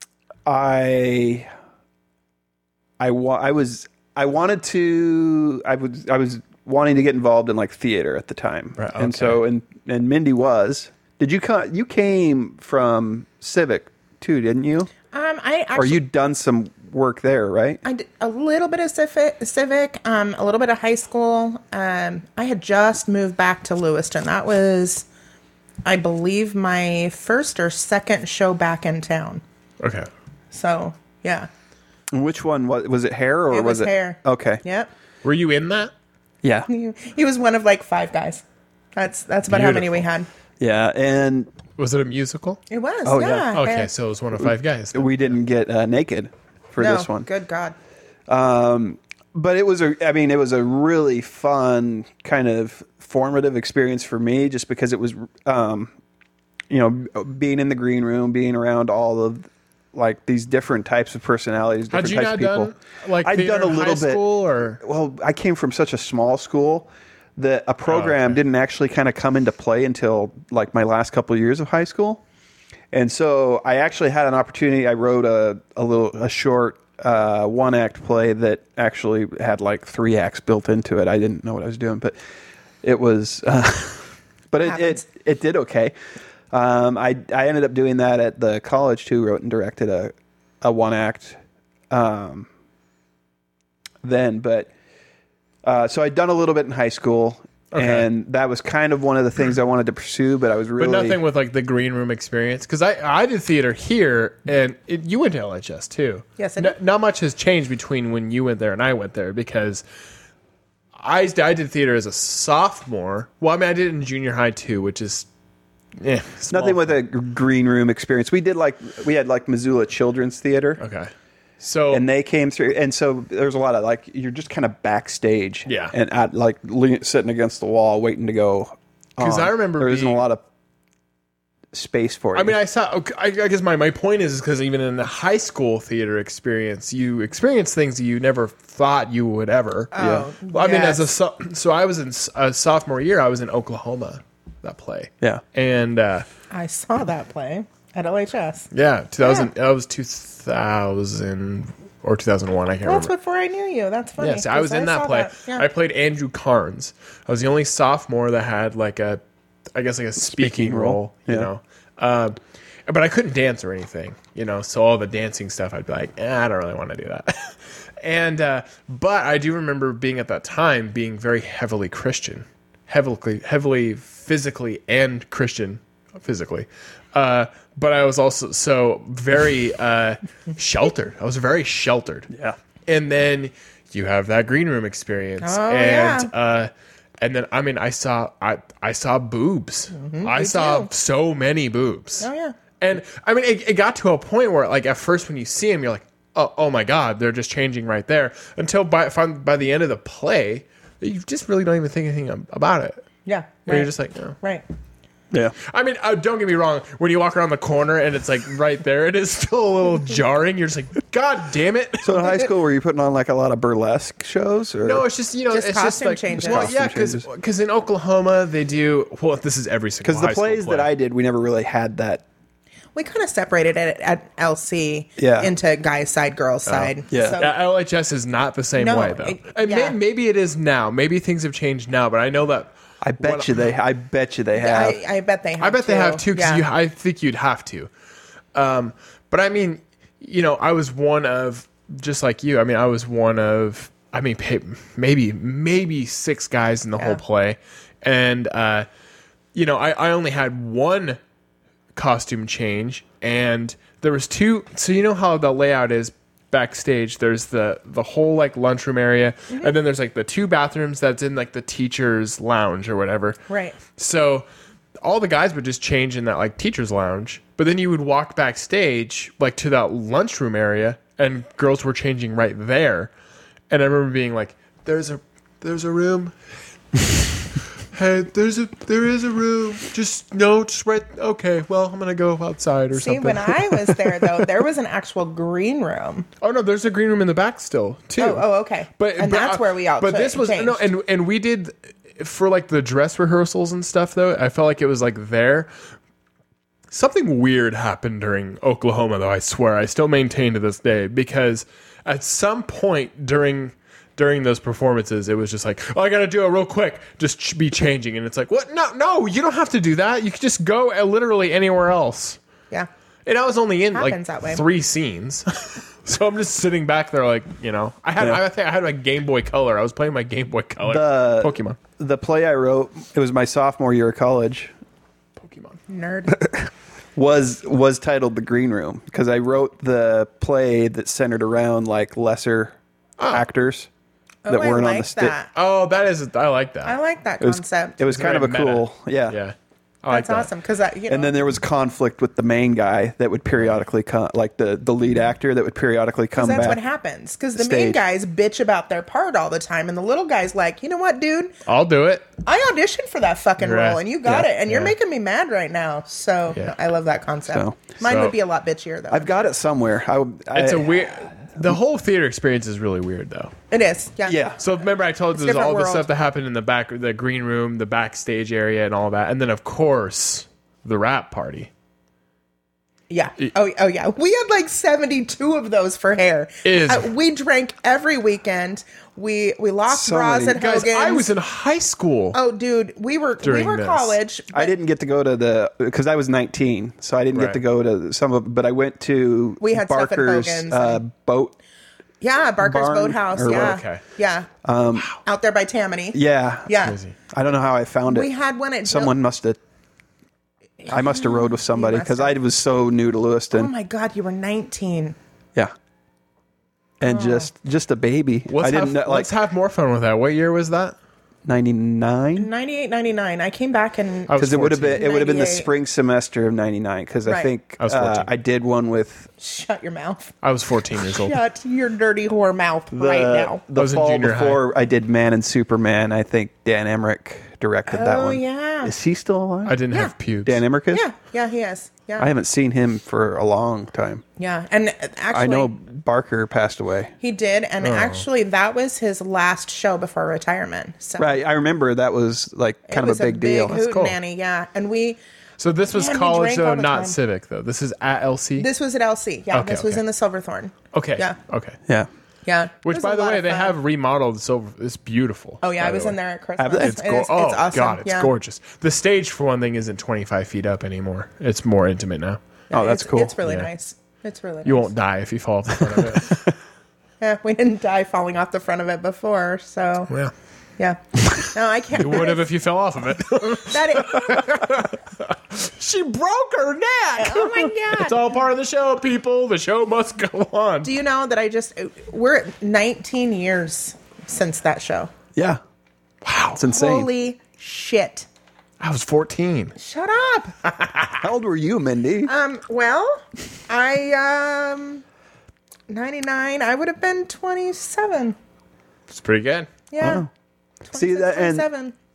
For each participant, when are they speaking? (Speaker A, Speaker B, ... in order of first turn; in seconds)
Speaker A: 0.5-1.5, 3.0-14.9, 15.8-17.8, 32.1-34.6, 36.4-36.7, 40.6-41.5, 43.0-43.6, 44.4-47.3, 48.3-55.9, 56.7-62.7, 63.2-64.2, 64.8-72.2, 72.9-82.1, 82.8-85.9, 86.5-91.4, 91.9-92.5, 94.0-94.7, 95.6-101.2, 116.5-120.8, 121.9-130.4, 131.7-132.6, 140.0-140.3, 160.2-161.5, 182.3-182.6, 212.0-215.0, 216.3-217.2, 220.0-222.2, 225.2-225.5, 227.1-227.4, 233.0-235.0, 320.9-324.7, 326.3-332.8, 333.3-333.9, 334.5-335.3, 337.4-339.4, 341.1-346.8, 347.6-348.0, 357.5-358.0, 359.1-361.8, 364.2-364.6, 379.9-380.6, 384.5-391.5, 392.6-393.8, 394.6-395.1, 396.1-396.8, 397.3-398.3, 398.8-399.6, 400.9-403.7, 407.0-409.3, 411.4-412.5, 414.4-419.3, 422.9-429.9, 430.4-431.0, 432.2-434.2, 435.3-437.1, 441.2-443.8, 456.6-456.9, 462.7-463.4, 465.9-466.5, 486.6-487.1, 491.2-492.3, 500.0-500.3, 500.9-501.7
Speaker B: 8.8-9.4, 29.8-30.1, 35.2-35.9, 39.5-40.0, 41.8-42.6, 43.5-45.3, 61.9-64.8, 67.9-68.4, 97.7-98.0, 100.8-109.8, 111.0-115.3, 116.0-117.0, 120.8-122.0, 125.7-125.9, 129.2-130.2, 132.3-139.9, 140.5-146.2, 148.7-153.1, 154.2-159.2, 159.8-182.3, 182.9-192.3, 192.8-203.0, 203.7-204.4, 205.6-212.3, 214.8-220.9, 226.7-233.7, 235.6-237.9, 238.5-248.9, 249.5-251.2, 251.9-263.4, 263.9-264.5, 265.0-273.1, 273.7-276.4, 277.9-284.4, 286.4-288.4, 289.0-295.7, 296.9-312.4, 313.2-321.8, 325.4-325.8, 333.2-333.5, 335.5-337.0, 338.1-340.5, 351.6-352.3, 353.6-354.9, 358.0-358.4, 360.5-363.5, 364.6-371.7, 376.6-377.1, 380.6-382.4, 383.4-384.1, 387.3-387.6, 393.5-394.0, 396.8-397.1, 408.5-411.0, 414.3-415.0, 417.8-418.3, 420.4-421.4, 423.8-424.6, 429.6-430.6, 437.8-438.2, 443.7-444.1, 445.6-448.7, 449.5-450.0, 450.9-451.8, 452.8-456.1, 456.8-462.4, 463.4-463.7, 464.6-466.5, 471.9-480.9, 486.2-486.6, 488.8-489.8, 490.6-491.2, 499.1-499.7
Speaker C: 15.1-16.0, 17.8-25.1, 25.8-29.4, 30.5-31.5, 33.5-34.9, 36.7-38.4, 38.9-40.3, 42.7-43.9, 46.8-47.8, 84.7-85.0, 106.4-106.8, 139.9-141.1, 146.5-148.7, 149.2-149.5, 152.8-155.7, 185.4-186.3, 190.0-190.9, 192.2-192.6, 203.2-204.6, 215.5-216.7, 222.9-227.5, 228.8-229.9, 234.5-236.6, 263.5-263.8, 282.9-286.3, 288.2-290.9, 313.9-314.6, 325.9-326.6, 334.4-335.5, 336.8-338.0, 340.1-341.3, 346.3-351.6, 352.4-359.5, 363.7-364.4, 365.3-366.1, 373.1-381.3, 382.3-384.7, 389.6-391.0, 392.2-394.5, 395.2-397.0, 398.1-399.1, 400.8-402.3, 403.5-405.1, 407.0-407.5, 412.4-415.7, 419.4-420.3, 421.0-423.6, 427.9-428.9, 430.9-432.3, 434.4-435.7, 437.2-441.4, 442.9-445.2, 445.9-447.2, 448.6-451.4, 452.5-453.8, 455.6-458.3, 462.7-464.9, 467.2-470.1, 470.8-472.5, 473.5-474.7, 477.2-478.3, 480.8-485.1, 486.7-488.3, 489.8-490.5, 492.2-495.0, 495.9-498.4, 499.9-500.2, 500.9-501.9